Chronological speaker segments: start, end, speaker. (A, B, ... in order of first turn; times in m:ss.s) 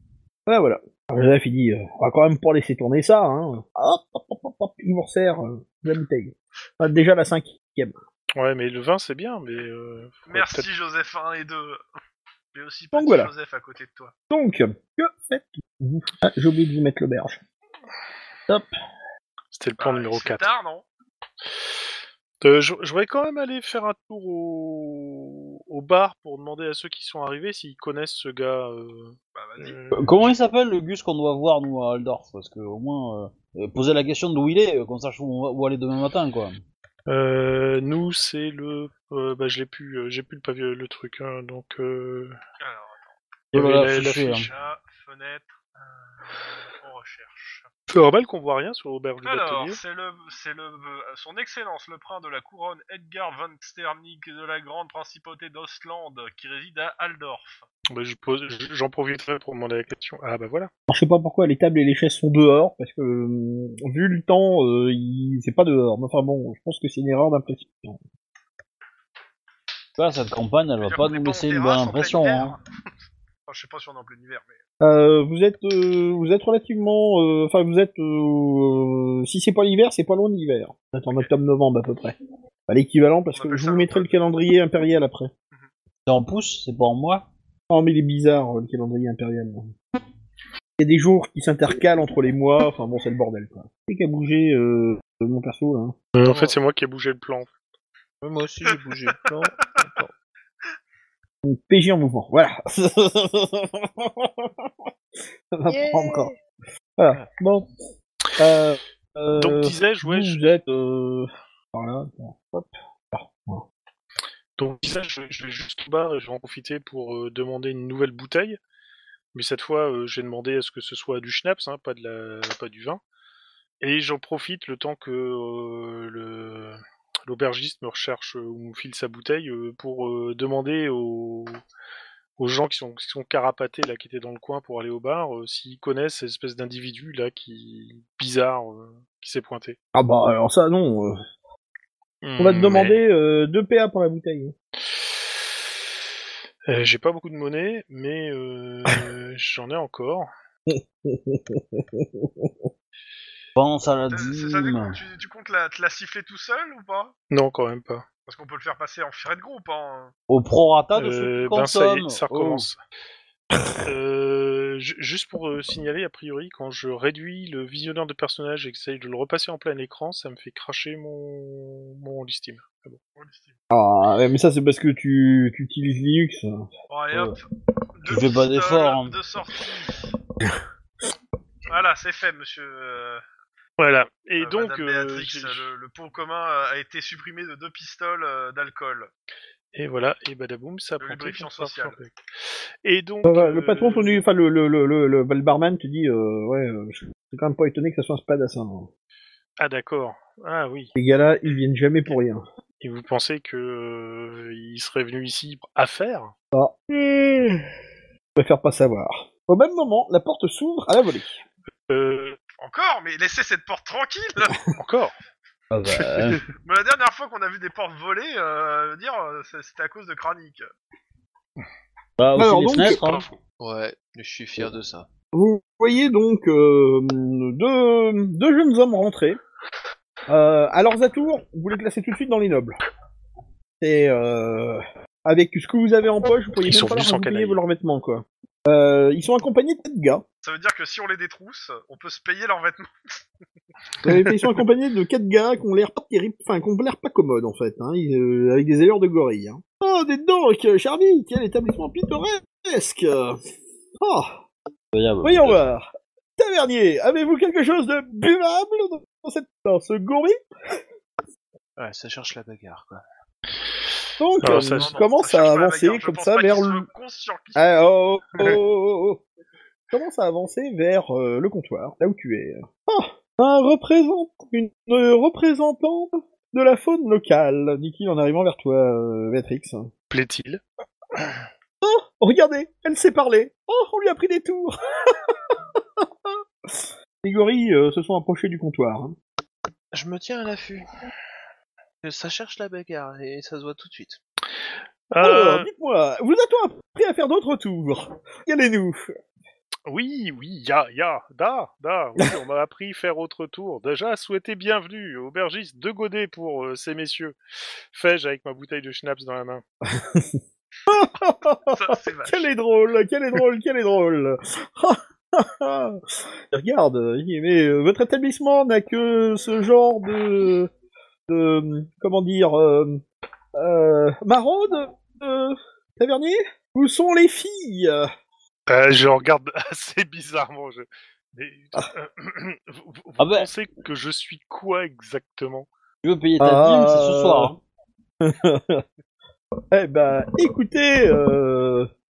0:00.5-0:07.9 A
0:08.4-0:10.7 B
0:10.3-0:11.8 C
0:12.5-0:14.1 C
0:12.9-0:13.3 A
0:14.3-0:17.4 A
0:19.5-0:20.5 B
0:19.8-0:20.8 C
0:22.4-0:30.3 B
0:29.3-0:29.9 C
0:29.9-0:36.6 D
0:37.1-0:42.4 B
0:42.6-0:43.1 C
0:43.5-0:44.5 D
0:43.5-0:44.5 B
0:44.4-0:47.7 C
0:47.9-0:49.8 B
0:49.2-0:57.6 C
0:57.9-1:00.7 B
1:00.9-1:08.0 A
1:10.0-1:12.6 D
1:10.8-1:12.6 C
1:13.5-1:14.6 C
1:14.8-1:22.1 A
1:22.7-1:25.3 A
1:23.3-1:24.2 C
1:26.0-1:27.3 D
1:27.7-1:29.7 A
1:30.8-1:35.9 A
1:36.1-1:37.5 B
1:36.2-1:36.5 E
1:38.2-1:40.1 E
1:41.4-1:44.7 A
1:45.5-1:46.3 A
1:45.7-1:46.2 E
1:47.0-1:47.6 A
1:48.4-1:53.6 A
1:49.4-1:50.5 B
1:54.6-1:58.6 B
1:59.3-2:03.0 B
2:03.8-2:11.6 B
2:12.4-2:19.8 B
2:19.9-2:21.2 A
2:22.2-2:23.0 B
2:22.4-2:24.5 A
2:26.7-2:30.3 B
2:30.7-2:32.7 A
2:33.6-2:35.0 D
2:34.1-2:37.1 C
2:37.3-2:38.0 B
2:38.2-2:40.1 C
2:40.3-2:42.7 D
2:41.0-2:42.8 B
2:43.8-2:53.0 B
2:53.1-2:53.6 C
2:53.7-2:56.6 A
2:56.9-3:00.1 C
2:58.0-2:59.2 D
3:01.7-3:03.2 C
3:03.8-3:05.7 B
3:04.4-3:09.1 C
3:09.7-3:14.2 B
3:11.0-3:12.0 C
3:13.2-3:18.9 A
3:19.6-3:20.9 B
3:21.0-3:22.4 A
3:22.8-3:26.3 B
3:26.5-3:27.6 A
3:28.4-3:31.4 A
3:31.9-3:32.4 B
3:32.6-3:34.6 C
3:34.8-3:35.1 B
3:35.7-3:36.5 D
3:36.0-3:36.4 B
3:36.5-3:40.7 C
3:42.2-3:43.3 D
3:42.4-3:43.0 A
3:43.6-3:45.1 E
3:45.3-3:49.4 A
3:50.3-3:52.8 A
3:53.8-4:00.2 A
3:56.6-3:57.6 B
4:00.4-4:02.9 C
4:04.0-4:13.4 A
4:14.0-4:14.4 A
4:14.9-4:15.6 D
4:15.2-4:15.8 A
4:16.4-4:20.4 A
4:21.8-4:23.0 E
4:24.2-4:26.9 A
4:24.4-4:24.9 B
4:24.5-4:27.9 C
4:27.6-4:29.2 A
4:29.9-4:39.9 A
4:40.1-4:40.6 B
4:41.8-4:49.2 A
4:49.9-4:50.8 E
4:52.0-4:54.2 E
4:55.1-4:55.7 B
4:55.2-4:59.1 A
4:59.8-5:07.4 B
5:07.9-5:09.6 B
5:09.9-5:20.7 A
5:11.7-5:12.5 C
5:21.3-5:23.0 A
5:23.5-5:28.1 A
5:28.7-5:35.7 B
5:33.2-5:33.5 D
5:36.0-5:37.6 D
5:36.4-5:37.5 A
5:38.2-5:38.8 A
5:39.7-5:41.9 A